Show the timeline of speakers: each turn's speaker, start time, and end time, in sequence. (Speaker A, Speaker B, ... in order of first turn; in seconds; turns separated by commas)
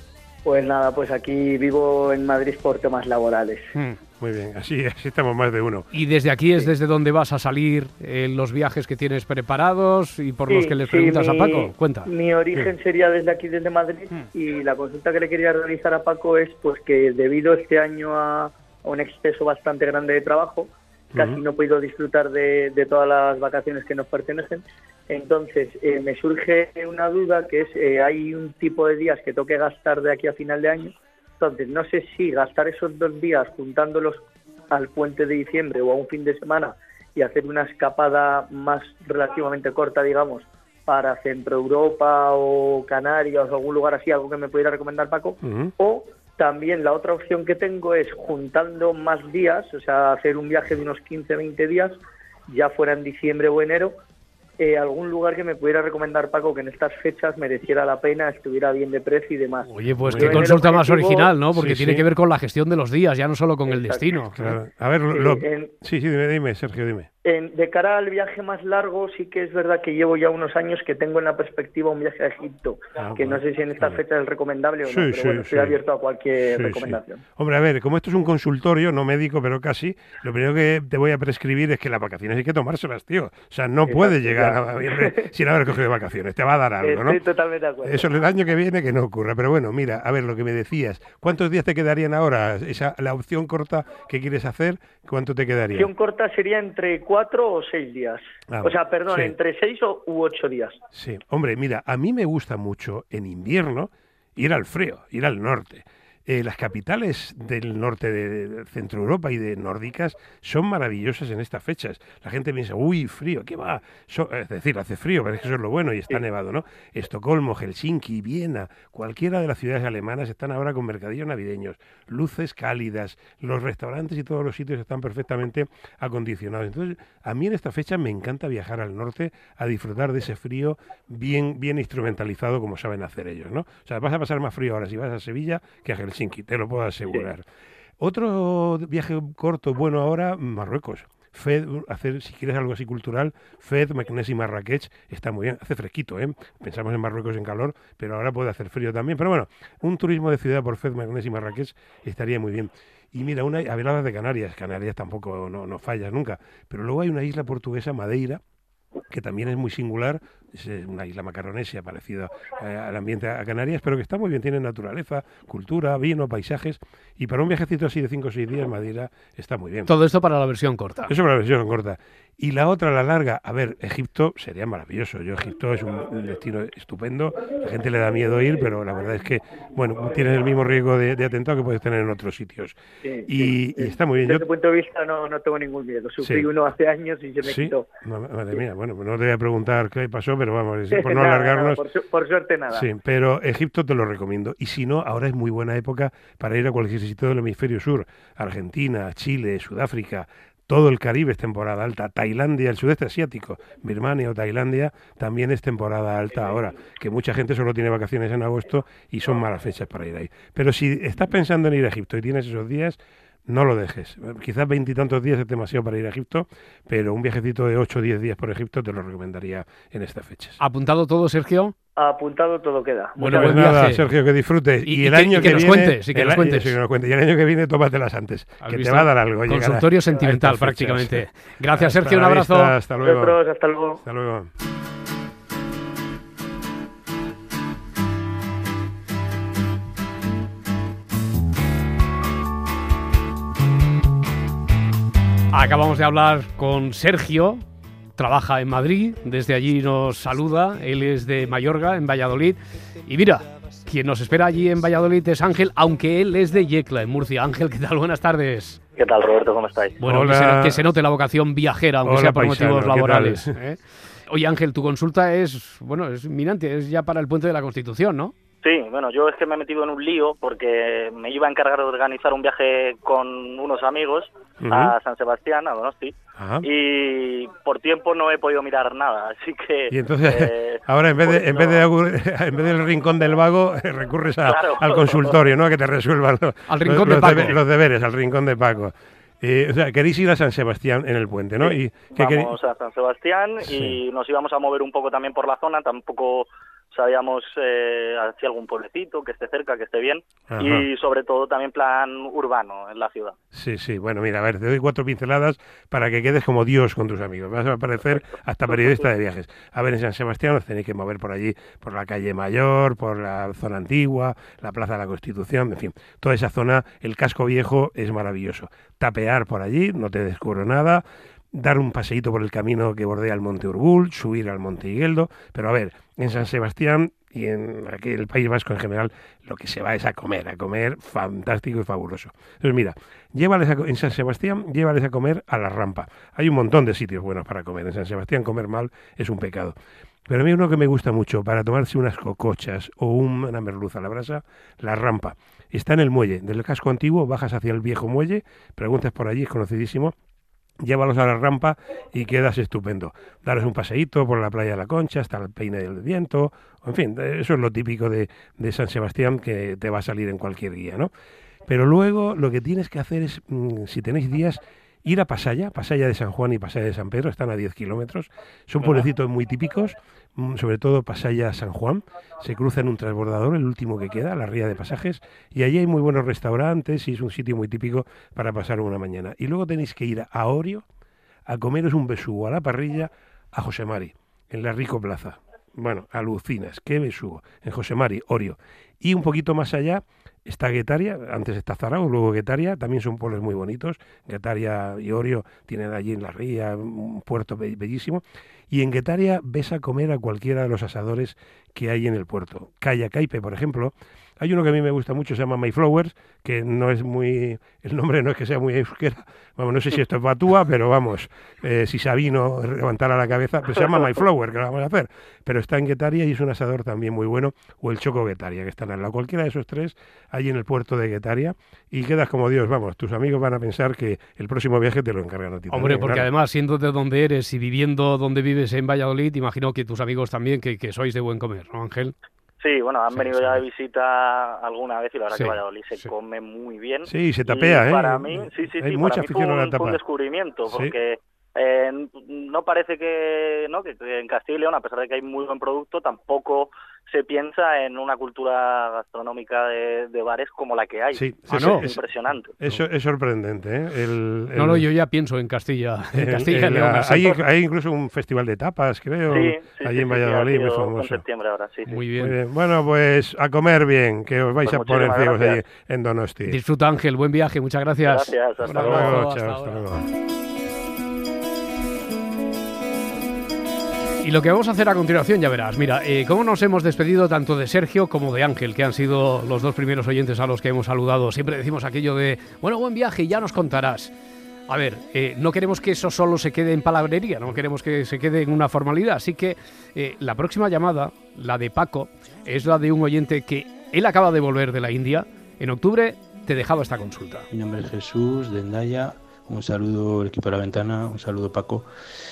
Speaker A: 0.5-3.7, Speaker B: 4.2-5.9, Speaker C: 5.9-12.1, Speaker A: 10.5-51.9, Speaker B: 21.1-21.4, Speaker B: 45.4-45.7, Speaker A: 52.5-53.9, Speaker A: 54.6-61.3, Speaker C: 59.6-64.4, Speaker B: 60.0-60.4, Speaker B: 61.5-62.1, Speaker A: 63.7-64.5, Speaker B: 64.3-67.1, Speaker A: 65.1-65.7, Speaker A: 67.2-77.2, Speaker B: 73.0-74.0, Speaker B: 74.8-75.8, Speaker B: 76.5-87.2, Speaker A: 83.9-85.3, Speaker A: 86.8-88.2, Speaker B: 87.8-95.9, Speaker A: 95.7-100.8, Speaker B: 98.5-99.4, Speaker B: 100.9-137.4, Speaker B: 138.0-158.4, Speaker B: 159.1-169.9, Speaker C: 169.9-171.1, Speaker B: 171.1-184.5, Speaker A: 183.0-187.9, Speaker B: 186.2-186.5, Speaker B: 187.4-191.8, Speaker A: 190.9-192.9, Speaker B: 192.7-220.6, Speaker C: 220.6-221.7, Speaker A: 222.0-223.8, Speaker C: 223.2-224.1, Speaker B: 223.2-233.4, Speaker C: 224.8-226.8, Speaker C: 228.6-232.7, Speaker A: 233.0-234.0, Speaker B: 234.0-234.5, Speaker C: 245.5-247.6, Speaker C: 248.2-258.8, Speaker D: 259.0-260.0, Speaker C: 260.0-268.3, Speaker B: 260.0-260.8, Speaker B: 262.0-263.5, Speaker D: 268.6-281.9, Speaker B: 274.6-275.0, Speaker B: 276.4-276.7, Speaker B: 279.9-292.6, Speaker D: 284.4-285.3, Speaker C: 286.7-287.6, Speaker D: 291.6-303.4, Speaker B: 293.6-294.0, Speaker B: 300.5-300.9, Speaker B: 303.5-321.0, Speaker D: 308.7-309.0, Speaker B: 321.5-339.8, Speaker B: 340.3-350.1, Speaker B: 350.8-361.1, Speaker B: 361.7-380.9, Speaker B: 381.5-426.3, Speaker C: 425.7-432.1, Speaker D: 432.6-452.5, Speaker C: 433.1-433.6, Speaker C: 435.3-436.1, Speaker B: 437.1-440.0, Speaker B: 440.6-441.0, Speaker B: 451.1-454.9, Speaker C: 451.5-451.9, Speaker C: 454.6-457.2, Speaker B: 456.1-461.2, Speaker D: 459.3-462.0, Speaker C: 461.9-462.4, Speaker B: 462.2-466.6, Speaker D: 464.6-465.6, Speaker C: 466.5-469.9, Speaker D: 468.0-469.0, Speaker B: 468.7-470.1, Speaker C: 474.2-484.1, Speaker C: 484.7-497.5, Speaker E: 497.5-501.9